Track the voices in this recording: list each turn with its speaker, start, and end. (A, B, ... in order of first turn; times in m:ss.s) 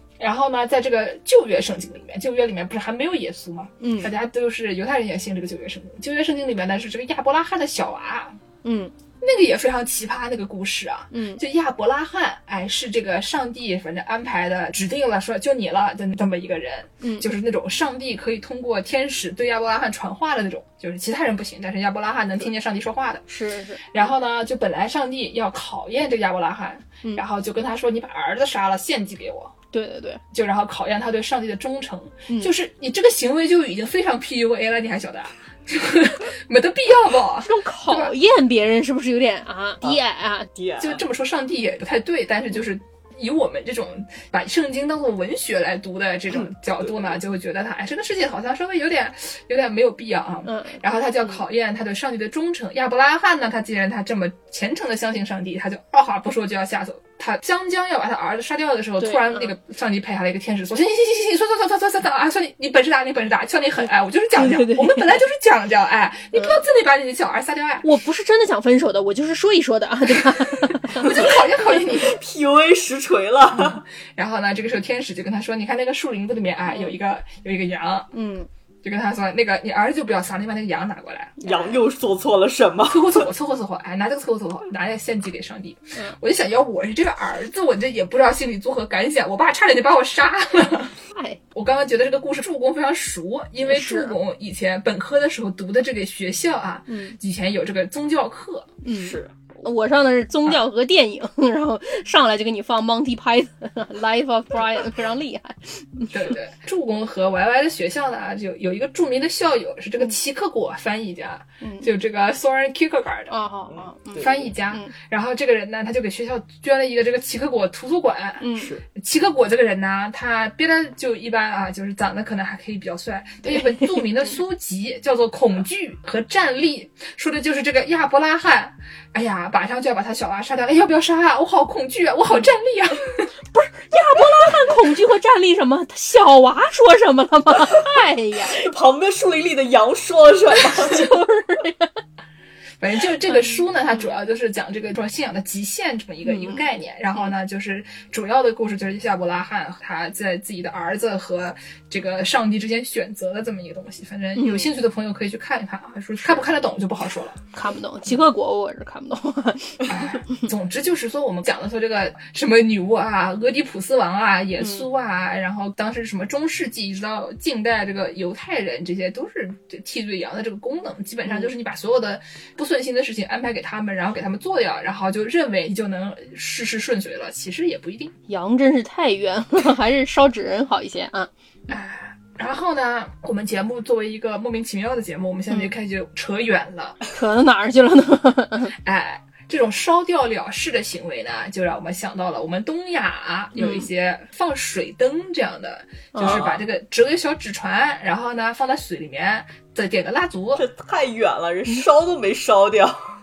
0:00.2-0:08.4 A
0:03.8-0:04.1 B
0:08.6-0:08.9 B
0:09.2-0:23.2 A
0:11.1-0:11.4 B
0:23.3-0:23.8 B
0:23.9-0:29.5 A
0:29.7-0:30.2 B
0:30.3-0:38.1 A
0:37.4-0:40.5 B
0:40.6-0:41.0 C
0:40.8-1:07.8 A
0:50.4-0:51.4 B
0:59.0-0:59.5 B
1:03.8-1:05.2 B
1:06.3-1:06.6 B
1:07.8-1:11.4 B
1:10.6-1:12.2 A
1:12.0-1:13.8 C
1:13.6-1:18.1 A
1:16.7-1:16.9 B
1:18.1-1:18.5 B
1:18.8-1:21.4 A
1:21.4-1:21.8 B
1:21.4-1:23.3 C
1:22.9-1:30.9 A
1:31.1-1:31.4 B
1:31.5-1:38.7 A
1:33.6-1:34.2 B
1:36.9-1:37.2 B
1:38.8-1:46.3 B
1:39.0-1:39.3 C
1:46.1-1:53.3 A
1:51.6-1:51.9 B
1:53.3-1:54.9 B
1:53.7-1:54.4 C
1:54.2-1:58.4 A
1:58.4-1:58.7 B
1:58.6-1:58.8 C
1:58.9-2:13.3 A
2:03.4-2:04.4 B
2:13.5-2:18.6 B
2:18.5-2:21.1 C
2:20.7-2:21.9 B
2:22.8-2:37.4 A
2:23.2-2:24.1 B
2:26.2-2:27.3 B
2:34.4-2:34.7 B
2:37.5-2:40.4 B
2:39.8-2:58.1 A
2:44.6-2:44.8 B
2:51.2-2:51.5 B
2:58.3-3:01.3 B
3:01.7-3:07.0 A
3:07.1-3:08.7 B
3:08.8-3:20.6 A
3:13.6-3:13.9 B
3:16.1-3:16.4 B
3:16.2-3:16.6 C
3:20.5-3:23.0 C